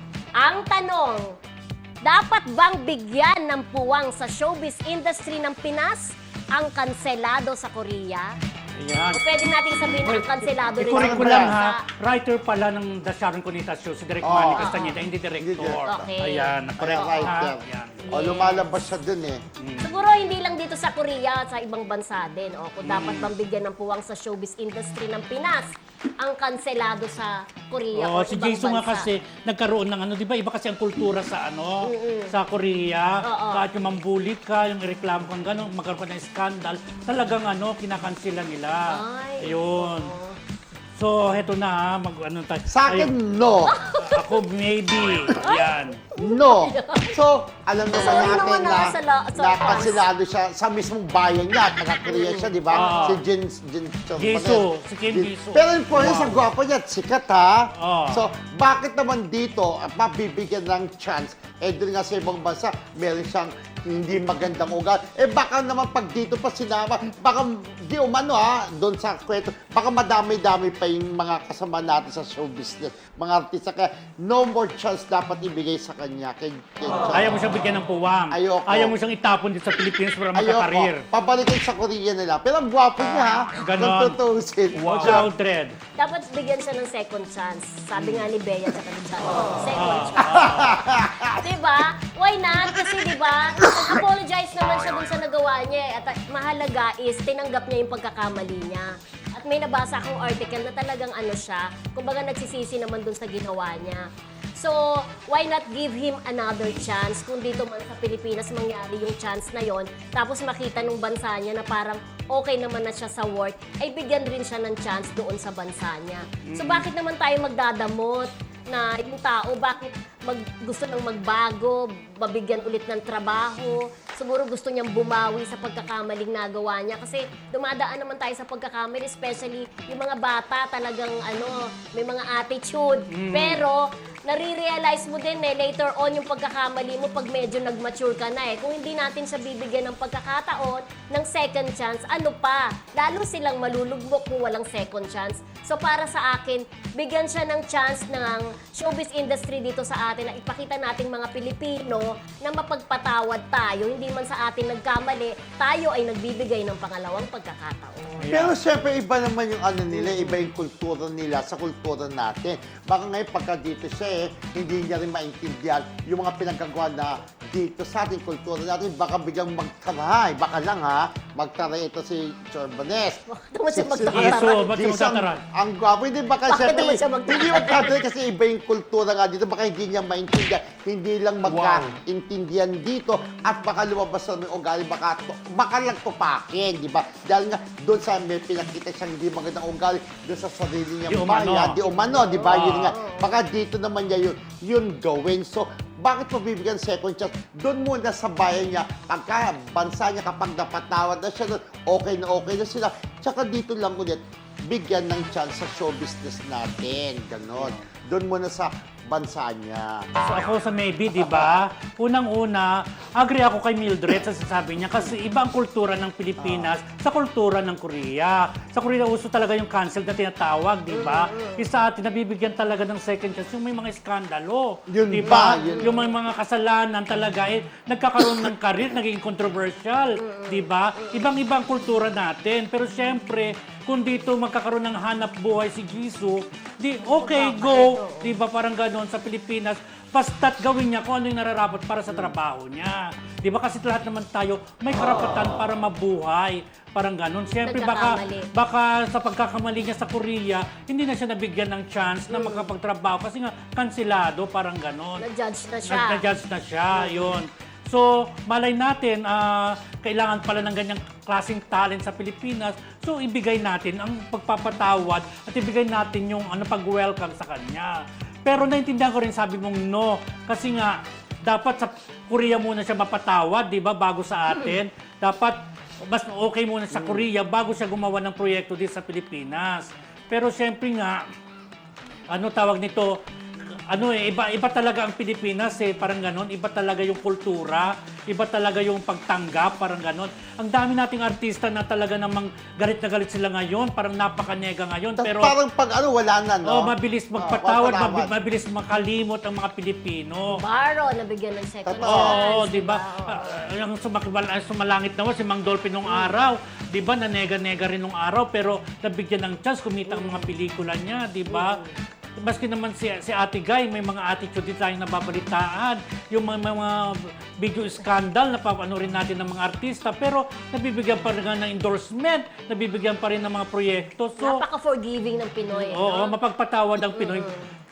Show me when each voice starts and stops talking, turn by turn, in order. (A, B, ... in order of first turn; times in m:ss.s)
0:00.4-0:01.4 A
0:02.0-0:08.4 A
0:08.8-0:09.2 B
0:09.1-0:11.8 A
0:10.0-0:18.2 B
0:10.8-0:11.5 C
0:14.2-0:14.7 C
0:14.5-0:15.0 A
0:15.4-0:16.1 C
0:15.8-0:17.4 A
0:16.8-0:19.4 C
0:18.0-0:18.9 A
0:19.6-0:19.9 B
0:19.8-0:29.1 A
0:22.8-0:23.3 B
0:27.9-0:40.1 B
0:31.8-0:32.3 A
0:33.2-0:33.7 A
0:38.8-0:40.4 A
0:41.0-0:43.1 B
0:42.7-0:43.7 C
0:43.7-0:44.4 A
0:43.9-0:46.0 B
0:45.2-0:47.2 A
0:46.2-1:17.4 C
0:48.0-0:50.1 A
0:52.0-0:53.2 A
0:52.7-0:53.2 B
0:54.2-0:56.5 B
0:57.8-0:58.2 B
1:17.0-1:21.0 B
1:18.3-1:18.9 C
1:20.3-1:25.3 C
1:23.6-1:24.2 B
1:24.8-1:25.7 B
1:26.0-1:30.6 A
1:28.0-1:28.2 B
1:29.7-1:30.8 B
1:30.2-1:31.4 C
1:31.3-2:38.3 A
1:56.4-1:56.9 B
2:13.1-2:13.6 B
2:38.2-2:38.5 B
2:38.3-3:30.3 C
2:39.9-2:40.4 A
2:53.3-2:54.7 A
2:54.1-2:55.4 B
2:56.5-2:58.0 A
3:01.4-3:01.9 B
3:11.1-3:11.8 B
3:11.9-3:13.4 A
3:12.4-3:12.9 B
3:27.6-3:27.8 B
3:30.2-4:15.2 B
3:31.2-3:31.5 C
3:36.4-3:36.7 C
3:40.9-3:41.7 A
3:44.9-3:46.0 C
3:45.2-3:46.0 A
3:50.2-3:51.3 A
3:57.2-3:58.3 A
4:07.6-4:08.5 A
4:12.3-4:12.7 A
4:15.2-4:16.2 A
4:15.8-4:41.2 B
4:37.0-4:37.2 C
4:42.3-4:43.2 B
4:43.9-4:55.6 B
4:55.2-4:58.3 C
4:56.6-5:00.6 B
5:00.5-5:03.6 A
5:01.8-5:02.4 C
5:02.0-5:11.8 B
5:06.0-5:06.4 A
5:10.1-5:10.5 A
5:11.5-5:11.9 A
5:12.4-5:24.6 B
5:24.4-5:26.3 A
5:25.7-5:27.5 B
5:27.0-5:27.7 A